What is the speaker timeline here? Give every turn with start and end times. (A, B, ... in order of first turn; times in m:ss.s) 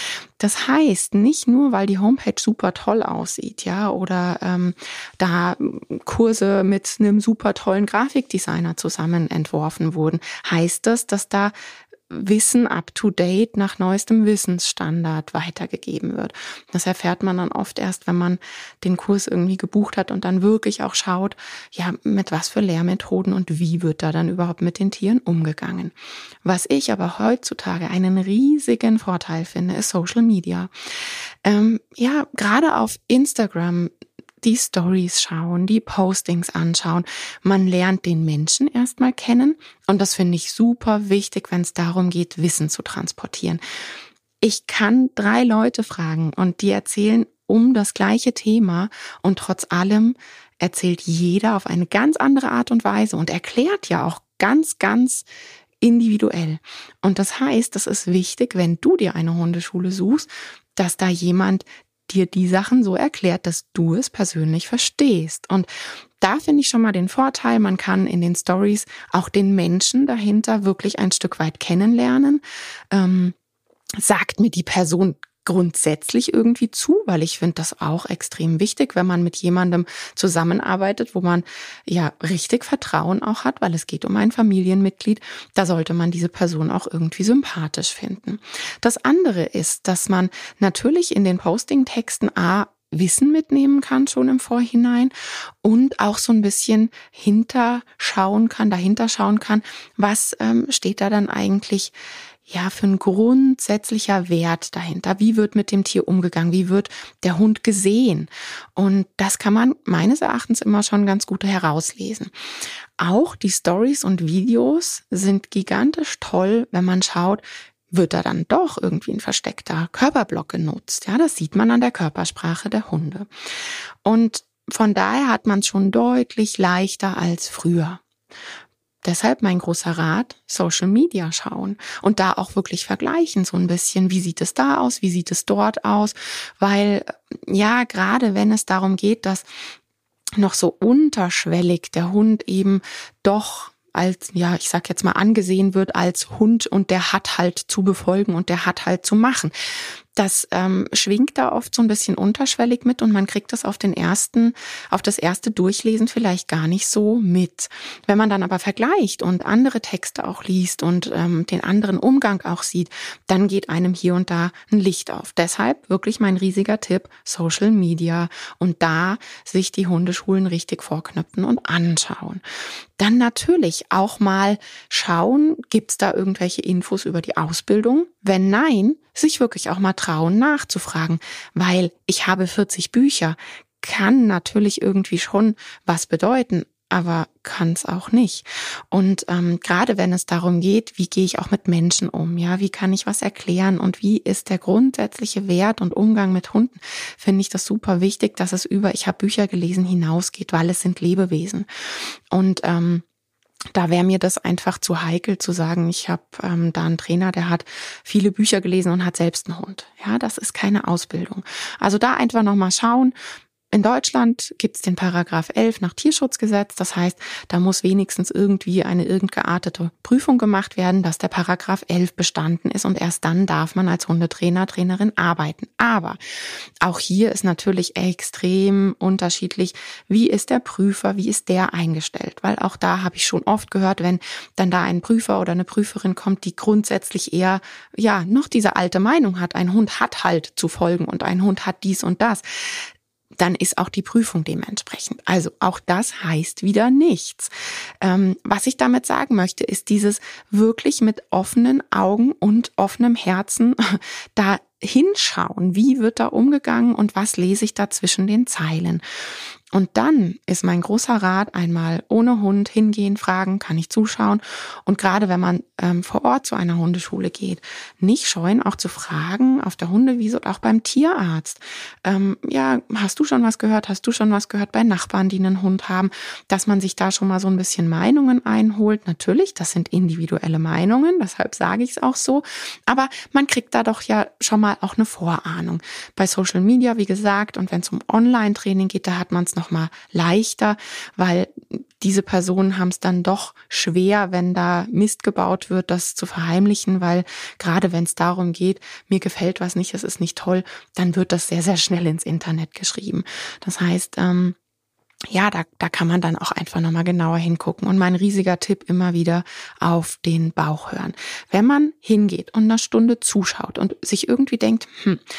0:00.4-0:11.5 A
0:12.1-0:30.7 A
0:31.4-0:43.6 A
0:44.4-0:55.3 A
0:55.8-1:05.7 A
1:06.2-1:13.4 A
1:14.0-1:41.9 A
1:42.5-1:52.3 A
1:53.0-2:03.3 A
2:04.0-2:08.0 A
2:09.0-2:19.4 A
2:20.4-2:29.5 A
2:30.2-2:52.4 A
2:53.0-3:21.7 A
3:22.3-3:23.0 A
3:23.8-3:33.2 A
3:33.7-3:46.2 A
3:46.8-4:02.9 A
4:03.4-4:19.0 A
4:19.7-5:04.6 A
5:05.3-5:15.2 A